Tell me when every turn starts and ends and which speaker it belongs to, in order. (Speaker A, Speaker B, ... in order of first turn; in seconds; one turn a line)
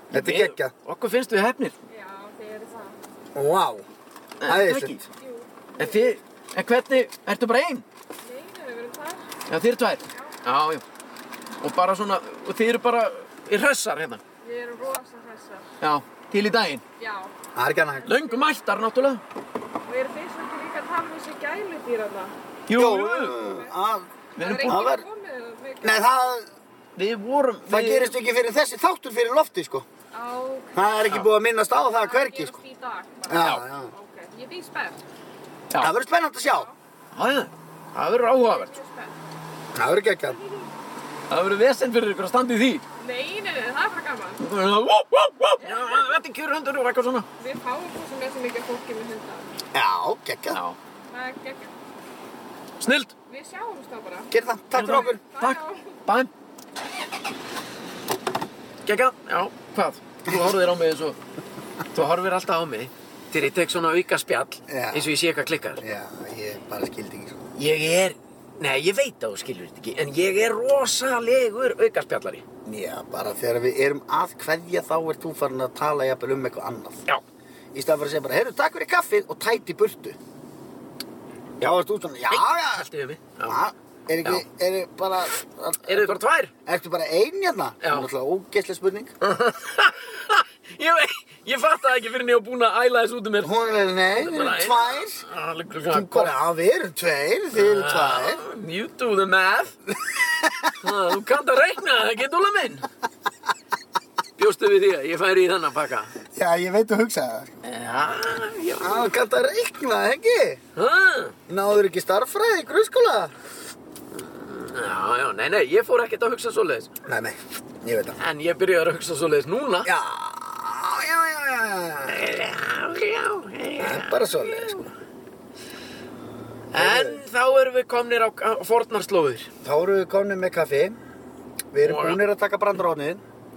Speaker A: 0.1-0.7
Speaker B: 0.1-1.7
Speaker C: 1.9-3.0
Speaker A: 3.3-3.8
Speaker B: 4.4-5.0
Speaker A: 4.4-5.0
Speaker C: 5.2-6.0
Speaker B: 5.8-7.8
Speaker C: 8.2-9.2
Speaker B: 9.5-10.8
Speaker C: 10.1-10.4
Speaker B: 11.6-14.2
Speaker C: 14.4-15.7
Speaker B: 15.8-16.8
Speaker C: 17.0-17.3
Speaker A: 17.5-18.1
Speaker C: 17.9-18.6
Speaker B: 18.1-19.2
Speaker C: 19.9-22.3
Speaker B: 22.7-23.4
Speaker A: 22.7-24.1
Speaker C: 23.4-23.7
Speaker B: 24.4-24.9
Speaker C: 24.4-26.3
Speaker A: 24.6-25.0
Speaker A: 25.8-26.5
Speaker B: 26.9-28.1
Speaker A: 27.7-29.9
Speaker C: 30.1-30.9
Speaker A: 30.7-32.6
Speaker C: 31.7-35.0
Speaker A: 33.3-33.9
Speaker A: 35.8-36.7
Speaker C: 36.4-36.8
Speaker B: 37.1-38.8
Speaker C: 38.3-39.2
Speaker A: 39.7-40.4
Speaker C: 40.3-40.7
Speaker B: 41.3-42.8
Speaker C: 43.0-44.4
Speaker B: 44.4-47.3
Speaker C: 45.6-46.0
Speaker C: 47.4-49.5
Speaker A: 49.7-50.6
Speaker B: 50.5-50.8
Speaker C: 51.1-51.7
Speaker B: 52.8-53.1
Speaker C: 53.3-56.0
Speaker A: 54.3-55.2
Speaker B: 54.7-56.3
Speaker B: 58.9-61.2
Speaker B: 61.9-65.8
Speaker A: 64.7-65.1
Speaker A: 65.8-67.4
Speaker B: 67.5-72.4
Speaker A: 72.7-77.0
Speaker A: 77.7-80.2
Speaker A: 81.6-82.9
Speaker B: 82.3-83.6
Speaker A: 83.5-89.1
Speaker B: 85.8-86.5
Speaker B: 87.8-88.1
Speaker B: 89.2-96.3
Speaker A: 93.4-95.2
Speaker A: 95.9-98.4
Speaker B: 97.5-99.8
Speaker A: 100.1-100.7
Speaker B: 100.8-102.9
Speaker B: 104.4-106.1
Speaker A: 106.3-107.5
Speaker B: 107.6-109.1
Speaker A: 108.8-110.6
Speaker B: 110.8-111.3
Speaker A: 111.5-113.3
Speaker B: 114.1-116.9
Speaker A: 117.0-118.2
Speaker B: 118.2-119.9
Speaker A: 119.8-122.2
Speaker B: 122.1-124.9
Speaker A: 123.8-124.8
Speaker B: 126.7-129.5
Speaker A: 126.7-127.2
Speaker A: 129.6-131.0
Speaker A: 131.7-133.2
Speaker B: 131.8-132.2